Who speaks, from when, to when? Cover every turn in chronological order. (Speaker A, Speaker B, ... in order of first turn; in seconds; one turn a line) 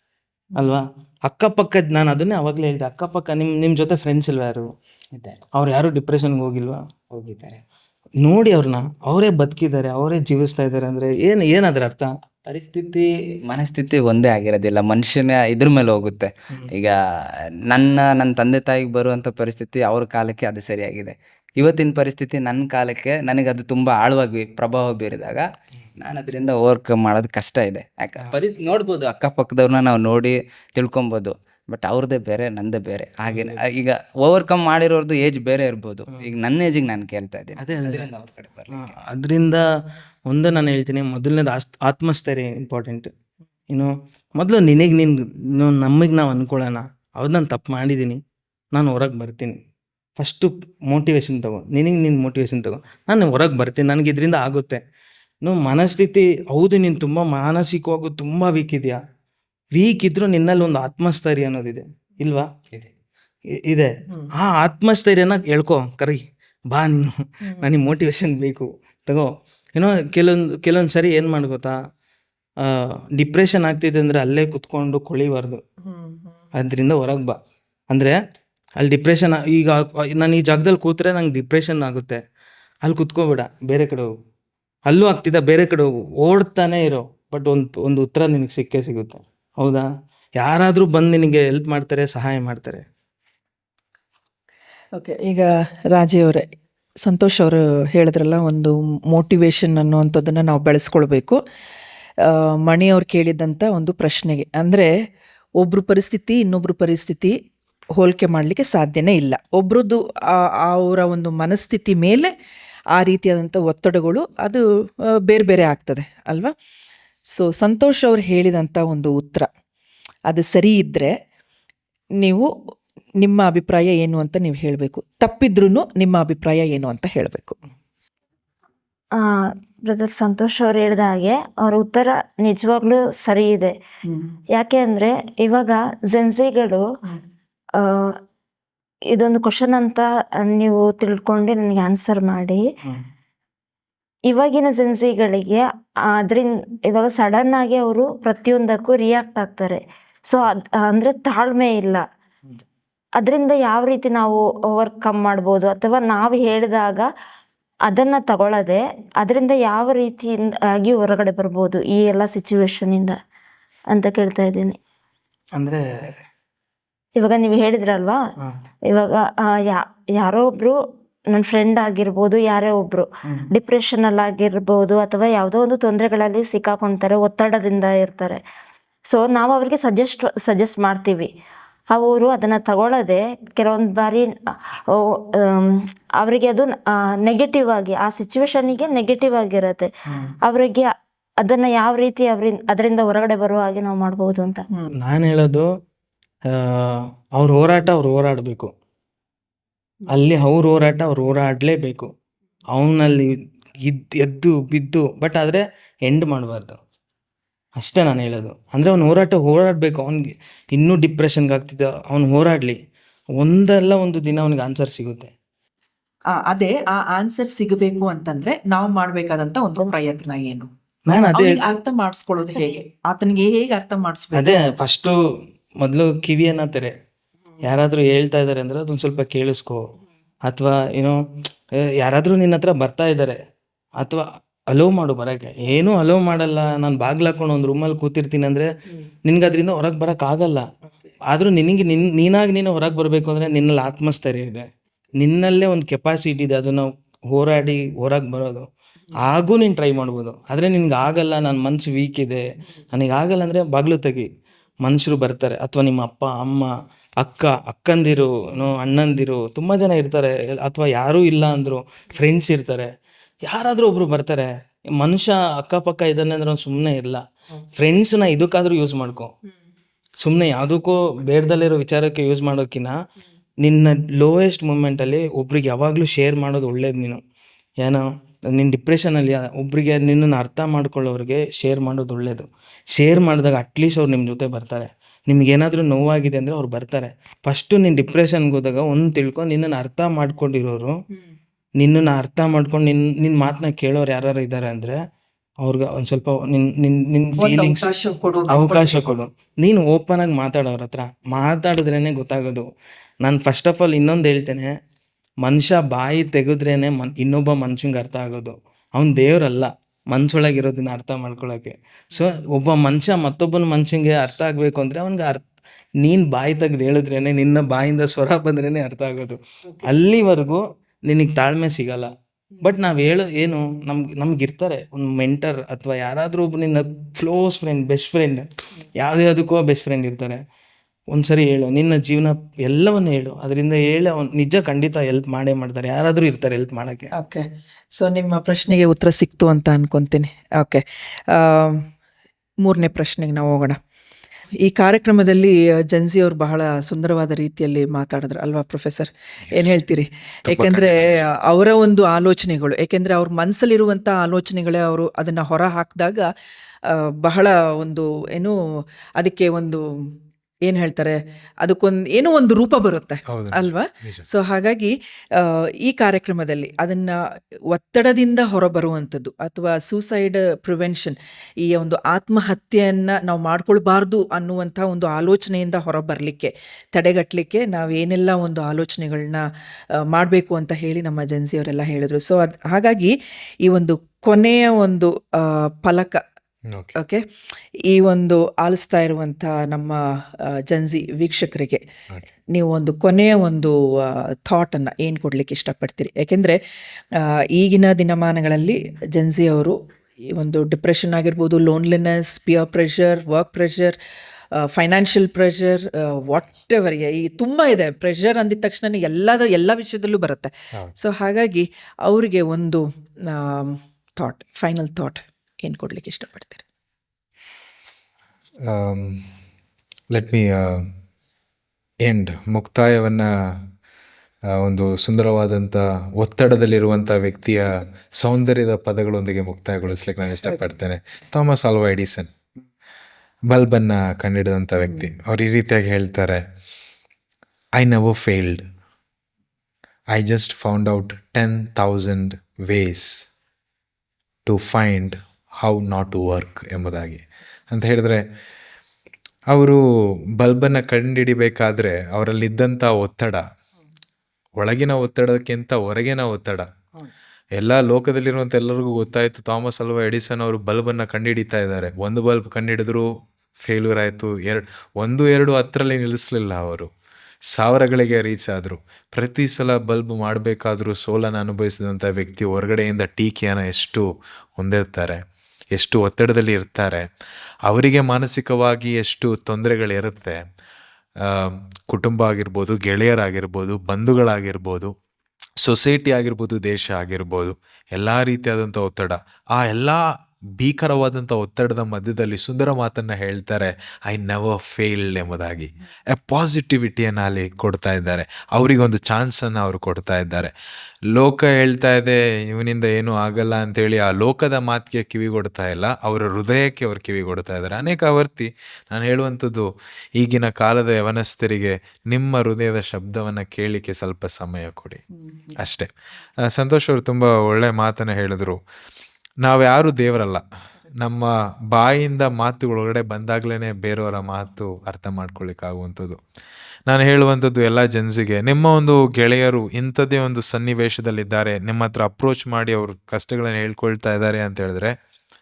Speaker A: 0.6-4.7
Speaker B: 5.1-5.4
Speaker A: 5.5-6.9
Speaker B: 7.1-7.6
Speaker A: 8.2-12.1
Speaker B: 12.4-25.5
Speaker B: 26.0-38.9
Speaker A: 33.3-33.6
Speaker A: 37.6-38.1
Speaker A: 38.7-39.6
Speaker A: 40.3-43.1
Speaker A: 43.7-48.2
Speaker A: 48.7-49.6
Speaker A: 50.2-54.8
Speaker A: 55.4-59.0
Speaker A: 59.7-62.5
Speaker A: 63.6-71.8
Speaker A: 72.6-75.6
Speaker C: 75.8-76.4
Speaker A: 76.5-77.4
Speaker A: 77.9-78.2
Speaker A: 78.8-82.2
Speaker A: 82.8-84.1
Speaker A: 84.9-92.8
Speaker C: 94.9-96.5
Speaker C: 97.0-101.4
Speaker C: 102.2-104.9
Speaker C: 105.6-107.4
Speaker C: 108.0-112.3
Speaker C: 112.9-114.6
Speaker C: 115.2-116.5
Speaker C: 117.3-119.5
Speaker C: 120.3-121.1
Speaker C: 122.2-122.5
Speaker C: 123.2-127.6
Speaker D: 129.1-133.7
Speaker D: 134.6-136.9
Speaker D: 137.7-138.2
Speaker D: 139.1-142.6
Speaker D: 144.3-152.0
Speaker D: 153.2-157.1
Speaker D: 157.9-163.2
Speaker D: 163.9-164.8
Speaker A: 165.6-166.1
Speaker D: 167.2-168.2
Speaker D: 168.9-170.8
Speaker D: 171.3-178.4
Speaker D: 179.1-181.3
Speaker D: 181.9-189.9
Speaker D: 190.4-194.6
Speaker A: 195.0-195.7
Speaker A: 196.5-198.7
Speaker A: 200.1-202.1
Speaker A: 202.7-206.8
Speaker A: 207.8-212.8
Speaker A: 213.3-215.3
Speaker C: 216.3-224.7
Speaker A: 221.1-221.6
Speaker A: 224.3-225.2
Speaker A: 225.8-226.9
Speaker A: 227.6-229.9
Speaker A: 230.4-231.2
Speaker A: 231.7-233.4
Speaker A: 234.0-238.7
Speaker A: 239.2-240.7
Speaker A: 241.3-254.3
Speaker A: 254.8-262.9
Speaker A: 263.4-267.2
Speaker A: 267.8-269.3
Speaker A: 270.2-272.9
Speaker A: 273.6-277.2
Speaker A: 277.8-291.0
Speaker A: 291.8-295.0
Speaker A: 295.6-297.9
Speaker C: 297.4-299.1
Speaker A: 298.5-302.7
Speaker A: 303.2-304.8
Speaker A: 305.4-315.5
Speaker A: 316.0-330.4
Speaker A: 331.1-337.1
Speaker C: 337.1-341.9
Speaker C: 342.6-343.8
Speaker C: 344.6-356.3
Speaker E: 350.4-351.2
Speaker C: 356.9-358.6
Speaker C: 359.2-360.1
Speaker C: 360.6-379.4
Speaker E: 363.3-364.3
Speaker C: 379.9-386.2
Speaker C: 386.9-387.2
Speaker C: 387.9-391.8
Speaker C: 392.5-396.6
Speaker C: 397.1-399.8
Speaker C: 400.3-404.0
Speaker C: 404.5-416.6
Speaker E: 418.6-419.3
Speaker E: 420.1-420.9
Speaker E: 422.0-423.6
Speaker E: 424.5-432.3
Speaker E: 433.5-436.4
Speaker E: 437.8-438.7
Speaker E: 440.1-443.2
Speaker E: 444.4-448.2
Speaker E: 449.5-449.8
Speaker E: 450.4-453.4
Speaker E: 454.6-456.7
Speaker E: 457.6-466.9
Speaker E: 467.5-475.2
Speaker E: 475.7-477.1
Speaker E: 477.6-480.4
Speaker E: 481.2-484.9
Speaker E: 485.6-500.5
Speaker E: 501.1-515.0
Speaker E: 515.5-518.6
Speaker E: 519.4-520.4
Speaker E: 521.0-526.2
Speaker E: 526.9-535.0